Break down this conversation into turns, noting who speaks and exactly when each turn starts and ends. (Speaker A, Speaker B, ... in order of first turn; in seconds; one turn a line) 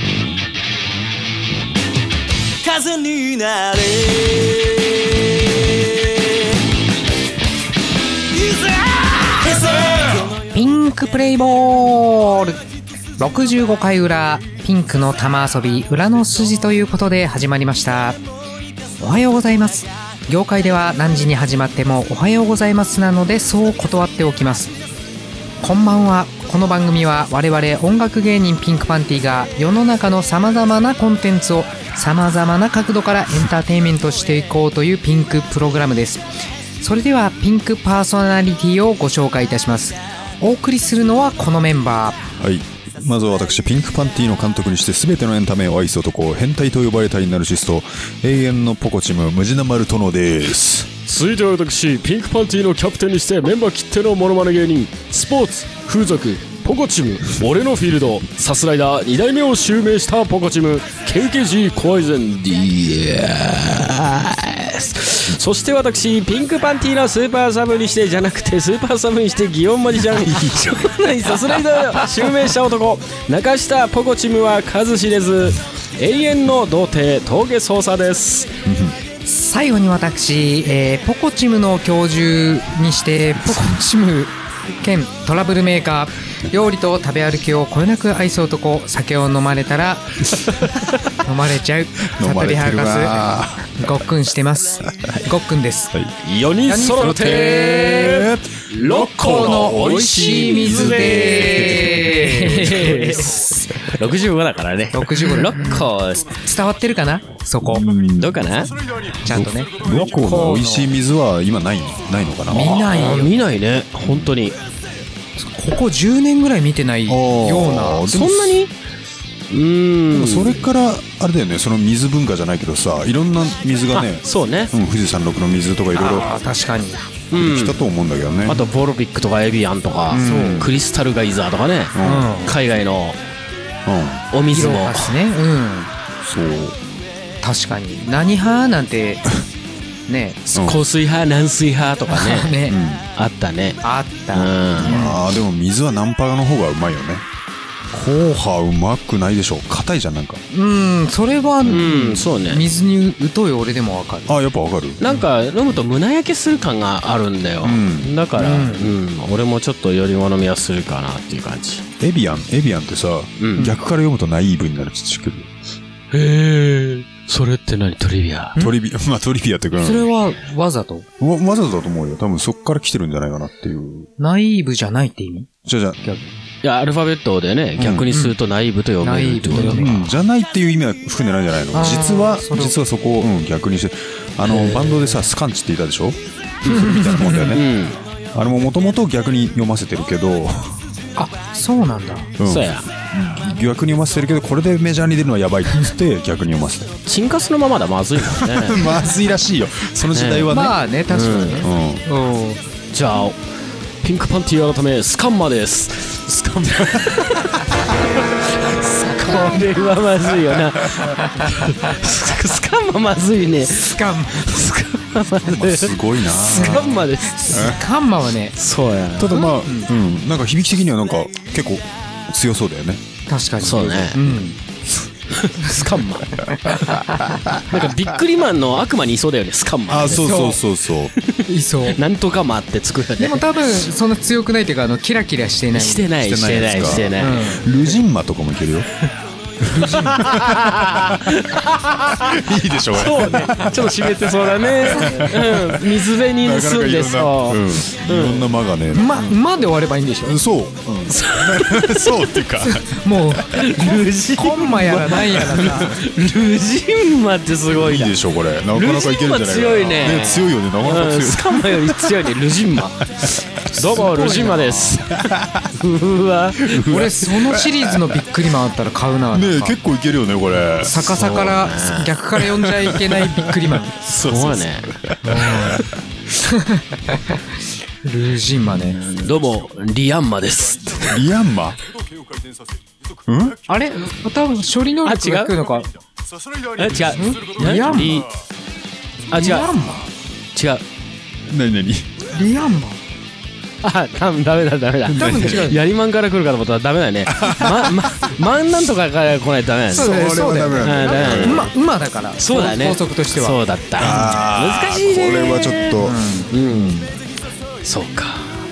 Speaker A: 2.6-4.5
Speaker A: 9.5-10.1
Speaker B: 10.5-12.6
Speaker B: 13.2-18.2
Speaker B: 19.0-24.8
Speaker B: 25.6-36.2
Speaker B: 36.8-42.2
Speaker C: 42.4-50.9
Speaker D: 51.1-78.5
Speaker C: 70.2-70.8
Speaker C: 78.7-79.0
Speaker B: 79.3-90.4
Speaker B: 91.1-95.9
Speaker C: 92.1-93.8
Speaker D: 96.2-106.4
Speaker B: 96.7-98.2
Speaker C: 97.0-99.6
Speaker B: 98.9-103.6
Speaker C: 100.6-103.2
Speaker B: 104.9-105.9
Speaker B: 106.4-107.9
Speaker C: 107.6-108.5
Speaker D: 108.2-108.8
Speaker C: 109.1-112.9
Speaker B: 109.2-110.9
Speaker B: 112.5-113.3
Speaker D: 112.5-114.6
Speaker C: 114.1-114.3
Speaker B: 115.4-118.1
Speaker C: 117.1-118.6
Speaker D: 118.1-118.7
Speaker D: 119.5-120.6
Speaker C: 120.1-126.3
Speaker D: 123.9-124.7
Speaker B: 126.0-127.1
Speaker D: 127.3-127.8
Speaker C: 127.4-128.7
Speaker D: 128.5-133.2
Speaker C: 130.1-130.8
Speaker B: 130.2-130.7
Speaker C: 131.9-132.3
Speaker B: 132.0-132.5
Speaker C: 133.9-134.2
Speaker D: 134.3-135.2
Speaker B: 134.5-135.9
Speaker C: 136.2-136.8
Speaker B: 137.4-139.3
Speaker B: 140.1-140.4
Speaker C: 140.5-140.8
Speaker D: 140.6-142.6
Speaker B: 142.1-142.8
Speaker C: 142.7-143.1
Speaker D: 143.2-143.8
Speaker B: 143.8-145.2
Speaker D: 144.3-145.1
Speaker C: 144.8-147.2
Speaker C: 147.9-150.4
Speaker B: 150.5-154.3
Speaker D: 151.7-152.7
Speaker C: 154.3-155.0
Speaker D: 155.0-161.8
Speaker C: 157.6-158.1
Speaker B: 158.4-158.9
Speaker C: 162.0-165.5
Speaker D: 163.4-163.7
Speaker D: 166.1-168.6
Speaker C: 168.6-170.1
Speaker B: 169.8-171.1
Speaker C: 171.2-174.1
Speaker B: 174.2-175.5
Speaker C: 175.7-176.3
Speaker D: 176.6-179.9
Speaker C: 177.8-178.1
Speaker B: 179.0-180.1
Speaker C: 179.7-187.7
Speaker B: 181.7-182.8
Speaker D: 184.4-185.3
Speaker B: 186.7-187.6
Speaker D: 187.3-188.0
Speaker C: 188.3-190.8
Speaker B: 191.2-192.3
Speaker C: 192.4-197.0
Speaker D: 192.4-192.9
Speaker D: 197.1-199.1
Speaker C: 198.3-200.8
Speaker D: 200.1-200.5
Speaker B: 200.5-202.6
Speaker D: 201.1-201.7
Speaker C: 201.6-202.1
Speaker D: 202.9-203.4
Speaker D: 204.0-217.7
Speaker C: 206.7-207.0
Speaker B: 208.9-209.7
Speaker C: 210.4-211.1
Speaker B: 211.2-211.9
Speaker B: 213.9-214.5
Speaker C: 215.4-217.0
Speaker B: 216.5-218.6
Speaker C: 217.5-217.8
Speaker D: 218.6-219.4
Speaker C: 219.2-223.0
Speaker B: 219.3-219.9
Speaker B: 223.3-224.6
Speaker D: 223.6-224.3
Speaker D: 225.3-230.5
Speaker C: 229.9-231.1
Speaker B: 230.1-230.6
Speaker D: 231.2-233.6
Speaker B: 231.5-232.0
Speaker B: 233.2-236.1
Speaker D: 235.7-237.6
Speaker C: 236.2-238.9
Speaker B: 237.2-237.6
Speaker C: 239.6-241.3
Speaker B: 239.7-240.2
Speaker D: 239.8-242.4
Speaker C: 242.1-249.2
Speaker D: 242.9-248.5
Speaker B: 248.9-250.4
Speaker C: 250.2-253.0
Speaker D: 251.1-252.5
Speaker B: 252.6-256.0
Speaker D: 253.5-266.8
Speaker C: 255.4-255.8
Speaker C: 257.7-262.2
Speaker C: 263.2-264.5
Speaker B: 263.9-265.0
Speaker C: 265.1-265.7
Speaker C: 266.6-268.2
Speaker B: 266.9-269.8
Speaker C: 269.3-271.1
Speaker B: 270.8-274.0
Speaker D: 270.9-272.4
Speaker C: 272.7-276.0
Speaker D: 274.0-275.0
Speaker B: 275.2-275.8
Speaker B: 276.4-277.5
Speaker B: 278.0-279.0
Speaker C: 278.8-279.4
Speaker D: 279.0-281.2
Speaker C: 280.8-282.2
Speaker C: 283.2-283.6
Speaker B: 283.7-285.9
Speaker D: 285.1-285.6
Speaker C: 286.5-288.3
Speaker D: 286.8-288.3
Speaker B: 287.1-288.3
Speaker B: 289.3-290.1
Speaker D: 289.3-289.7
Speaker D: 290.5-290.8
Speaker C: 291.4-292.2
Speaker B: 292.3-293.0
Speaker D: 293.8-300.1
Speaker B: 295.1-295.8
Speaker C: 295.1-295.7
Speaker C: 297.3-298.1
Speaker C: 299.9-301.7
Speaker B: 299.9-304.4
Speaker D: 300.8-301.7
Speaker D: 302.4-307.1
Speaker C: 304.0-306.2
Speaker B: 306.0-306.5
Speaker D: 307.8-308.5